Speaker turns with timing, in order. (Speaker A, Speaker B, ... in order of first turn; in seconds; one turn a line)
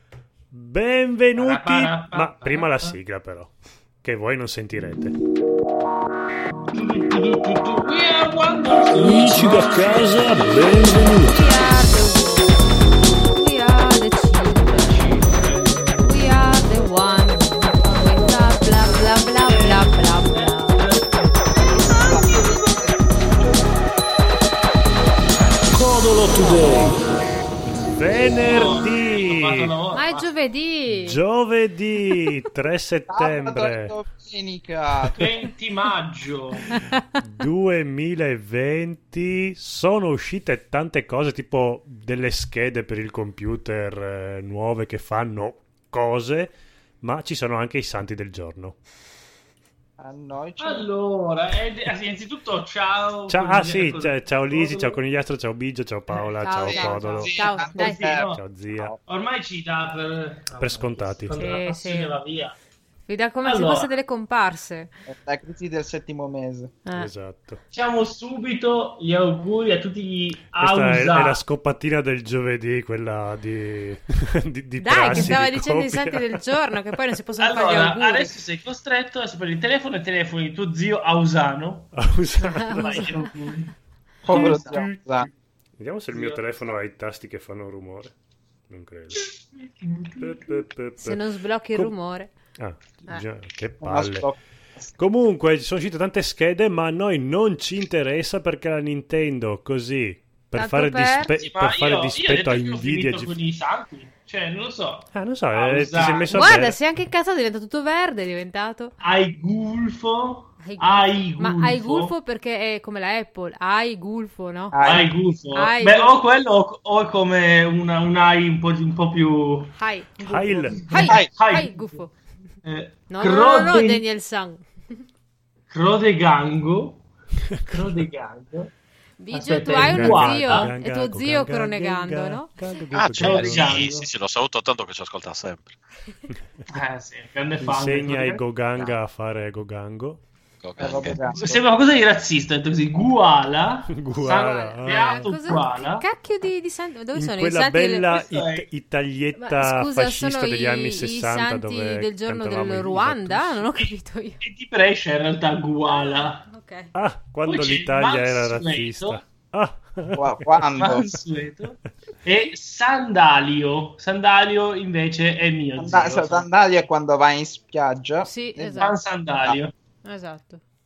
Speaker A: 0.5-5.1
Speaker B: 1.3-2.9
Speaker B: 6.7-10.4
Speaker A: 8.9-11.6
Speaker C: 11.2-15.0
Speaker B: 14.6-15.9
Speaker C: 16.0-20.8
Speaker B: 20.3-21.4
Speaker D: 21.6-23.8
Speaker B: 22.0-22.6
Speaker A: 25.7-27.0
Speaker A: 27.7-29.7
Speaker B: 28.4-30.2
Speaker C: 29.9-31.2
Speaker A: 30.9-33.9
Speaker D: 33.1-35.3
Speaker B: 35.2-36.8
Speaker C: 36.7-37.0
Speaker A: 36.8-48.8
Speaker D: 50.0-50.9
Speaker B: 50.6-55.0
Speaker A: 53.3-58.9
Speaker C: 56.4-58.0
Speaker D: 56.6-58.3
Speaker B: 57.7-58.4
Speaker B: 59.1-62.5
Speaker A: 60.6-61.5
Speaker C: 61.3-62.1
Speaker C: 63.0-64.9
Speaker B: 63.4-63.9
Speaker D: 65.0-66.7
Speaker C: 66.8-67.1
Speaker A: 66.9-67.6
Speaker B: 67.7-71.4
Speaker A: 70.6-77.1
Speaker C: 74.8-78.3
Speaker B: 75.0-75.4
Speaker B: 77.4-81.9
Speaker A: 81.9-83.2
Speaker C: 82.4-83.3
Speaker B: 82.7-83.7
Speaker B: 84.2-84.8
Speaker D: 84.2-85.3
Speaker C: 84.3-84.6
Speaker A: 85.8-88.1
Speaker B: 86.1-86.4
Speaker A: 88.7-89.3
Speaker B: 89.8-90.2
Speaker A: 90.2-91.9
Speaker C: 91.0-92.3
Speaker A: 92.6-94.3
Speaker D: 93.8-94.9
Speaker A: 95.0-103.4
Speaker C: 100.5-101.3
Speaker B: 101.4-106.5
Speaker A: 105.1-106.8
Speaker C: 106.3-108.9
Speaker B: 109.0-112.1
Speaker C: 110.6-114.8
Speaker D: 114.7-115.1
Speaker B: 114.8-121.9
Speaker C: 115.5-116.2
Speaker C: 119.8-120.2
Speaker A: 120.2-121.2
Speaker C: 120.8-122.1
Speaker B: 122.6-124.0
Speaker C: 123.1-124.7
Speaker B: 125.7-127.0
Speaker B: 127.7-128.7
Speaker C: 129.2-132.6
Speaker B: 129.3-130.7
Speaker A: 129.8-133.8
Speaker E: 132.9-135.8
Speaker B: 133.1-134.0
Speaker B: 136.7-138.4
Speaker A: 137.6-140.2
Speaker E: 140.6-141.6
Speaker D: 140.8-141.6
Speaker B: 141.3-146.0
Speaker A: 143.9-145.6
Speaker C: 144.8-148.1
Speaker A: 147.1-153.7
Speaker B: 148.1-148.7
Speaker C: 149.3-154.4
Speaker B: 154.4-156.4
Speaker C: 155.9-156.9
Speaker A: 156.9-160.5
Speaker B: 157.4-159.2
Speaker D: 160.2-161.1
Speaker B: 160.8-166.5
Speaker D: 165.8-168.9
Speaker C: 168.2-168.9
Speaker B: 168.8-169.7
Speaker C: 170.0-170.6